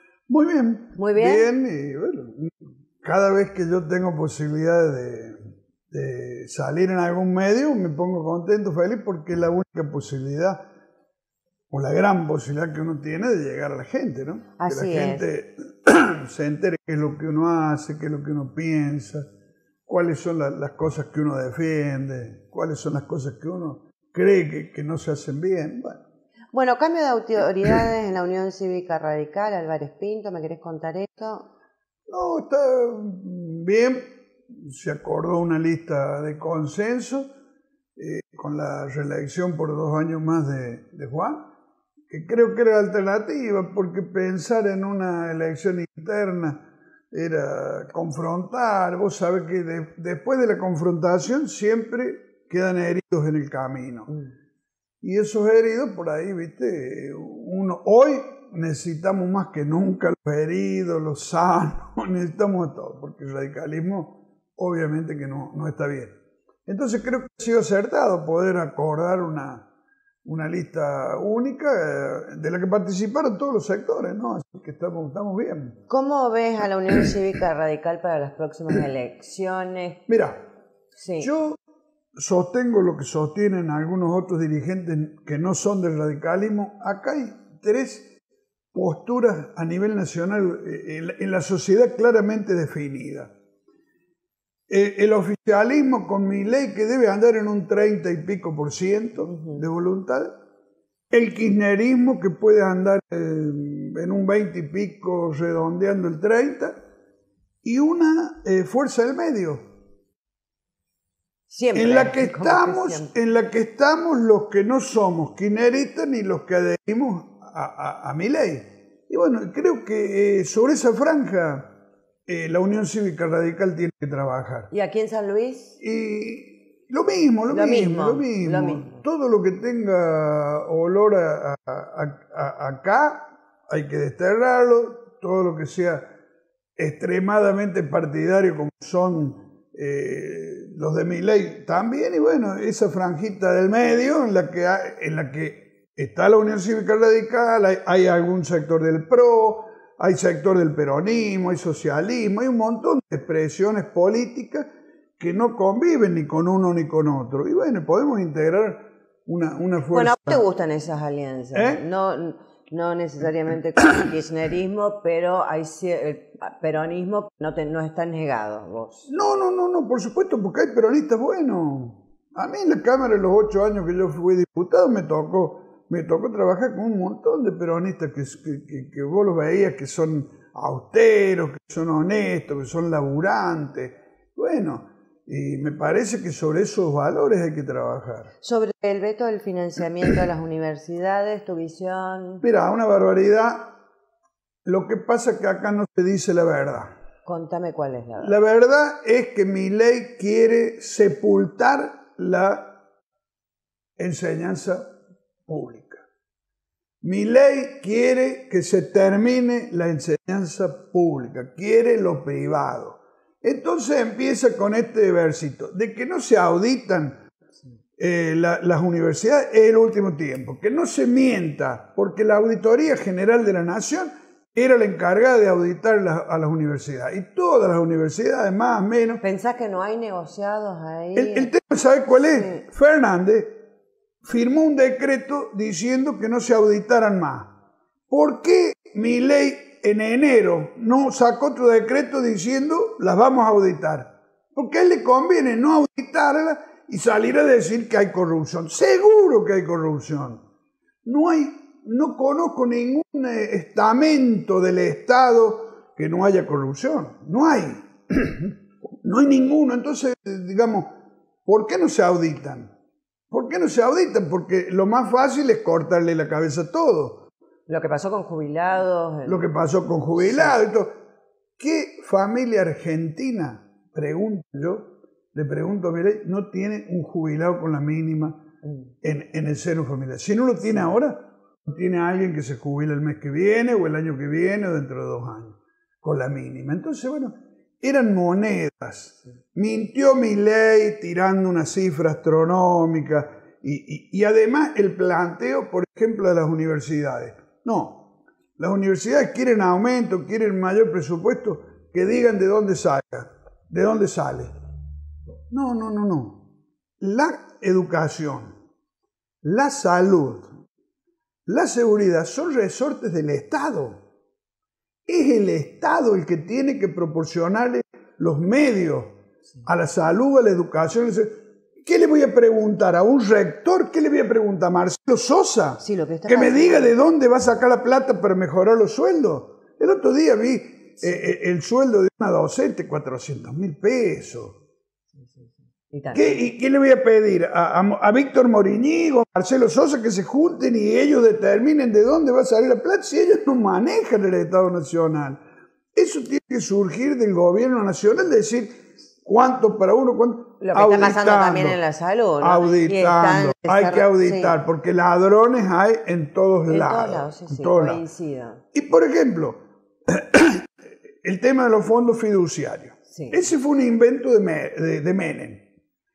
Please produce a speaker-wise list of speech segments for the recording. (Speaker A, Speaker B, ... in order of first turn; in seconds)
Speaker A: 0.3-10.6, 11.7-19.2, 19.9-26.0, 32.1-37.3, 38.0-41.4, 42.1-54.1, 55.0-66.1, 66.7-69.6, 70.2-75.8, 80.1-80.4, 81.2-81.6, 82.2-88.1, 88.7-93.3, 94.7-100.3, 101.1-106.8, 107.6-109.6, 111.8-121.7, 122.3-124.7, 125.8-136.0, 136.8-160.4, 161.5-161.8, 169.1-188.3, 192.4-193.7, 194.6-196.9, 198.2-202.7, 204.0-204.9, 205.5-206.0, 207.0-217.2, 218.0-229.2, 231.1-233.6, 234.2-237.5, 238.1-250.4, 251.0-260.9, 261.4-262.7, 263.3-267.2, 269.2-270.9, 271.6-278.4, 279.0-298.1, 298.6-304.5, 305.5-306.4, 307.0-308.5, 309.4-310.5, 311.4-314.0, 315.1-321.3, 321.9-334.6, 336.1-345.4, 345.9-351.8, 352.4-358.0, 358.7-360.7, 361.2-365.6
Speaker B: 0.9-1.5, 14.6-15.2, 26.5-31.5, 75.9-80.0, 81.0-81.3, 99.3-99.6, 111.5-113.1, 124.7-125.8, 127.5-129.0, 159.9-169.1, 188.4-192.4, 197.2-198.3, 229.2-231.5, 232.3-232.6, 267.7-269.4, 270.1-270.6, 278.6-278.9, 325.8-326.9, 335.2-336.4, 350.6-354.5, 356.7-358.6, 363.1-363.4